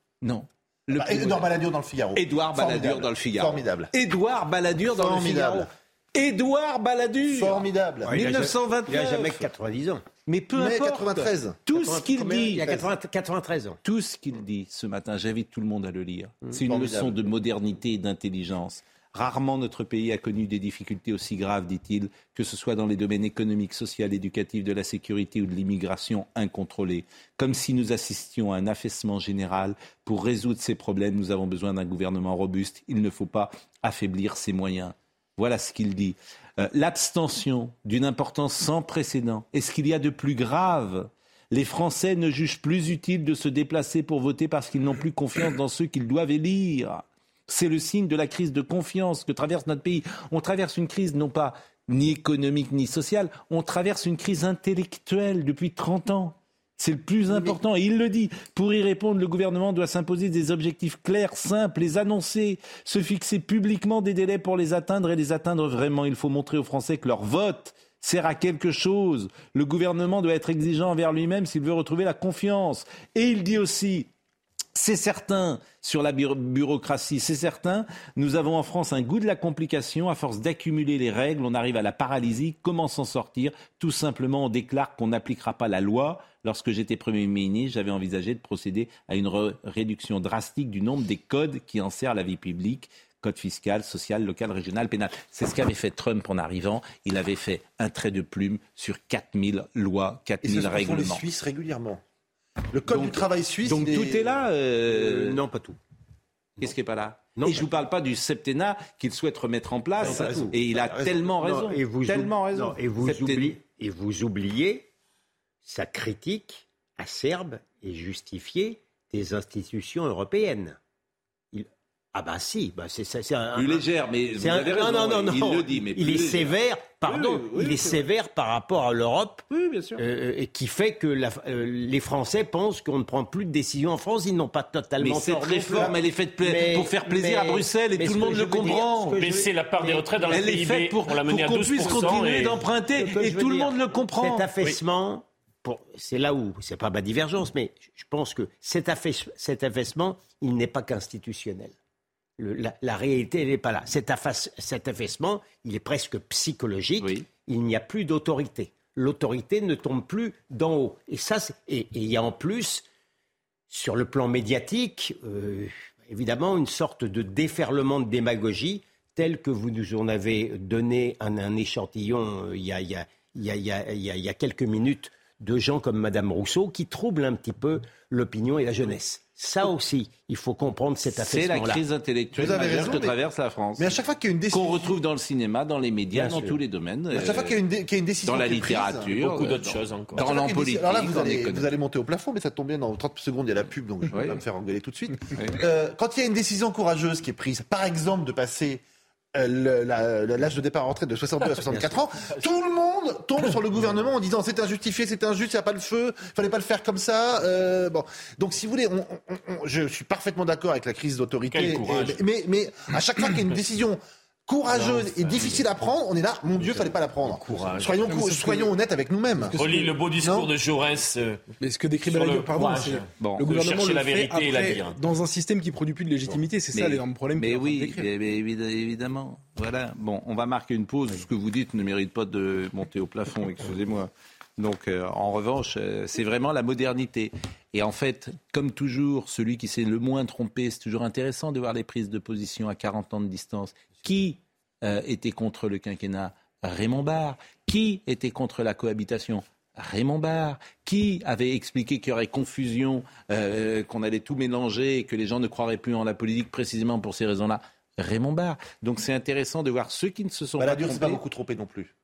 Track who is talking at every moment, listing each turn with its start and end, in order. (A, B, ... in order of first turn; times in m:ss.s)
0:00.2-0:01.5 A
0:00.9-0:03.9 B
0:02.2-0:09.5 A
0:04.9-0:05.7 B
0:07.3-0:08.2 B
0:08.0-0:10.0 C
0:10.3-0:12.8 A
0:10.6-0:11.6 B
0:11.7-0:13.8 C
0:13.8-1:14.1 A
0:16.7-0:17.3 B
0:57.3-0:57.6 B
1:14.8-1:41.2 A
1:40.4-1:42.0 B
1:42.7-1:44.4 B
1:42.9-1:45.4 A
1:44.9-1:45.8 C
1:46.6-1:53.6 A
1:47.4-1:47.7 C
1:50.0-1:50.6 C
1:50.0-1:51.3 B
1:51.3-1:54.9 C
1:55.6-2:00.8 C
2:01.5-2:09.4 C
2:03.6-2:08.1 A
2:09.5-2:10.0 A
2:10.0-2:20.7 C
2:15.0-2:19.2 A
2:19.1-2:22.6 D
2:20.3-2:24.5 A
2:21.8-2:22.2 C
2:22.9-2:31.8 C
2:32.4-2:42.8 C
2:37.0-2:37.3 A
2:43.7-3:01.8 C
3:01.1-3:04.0 A
3:02.4-3:03.2 B
3:02.5-3:02.9 C
3:03.8-3:05.0 B
3:04.5-3:07.6 A
3:06.1-3:06.6 C
3:07.1-3:09.1 B
3:08.2-3:11.7 A
3:09.1-3:10.2 D
3:10.2-3:18.8 B
3:14.1-3:14.4 A
3:19.4-3:39.6 B
3:21.7-3:22.0 C
3:31.5-3:32.2 D
3:34.8-3:35.6 D
3:37.2-3:38.7 D
3:37.5-3:37.8 C
3:39.5-3:41.4 D
3:40.2-3:40.5 B
3:41.6-3:48.1 E
3:42.0-3:45.0 D
3:43.2-3:43.4 A
3:46.7-4:21.2 A
4:20.6-4:21.9 B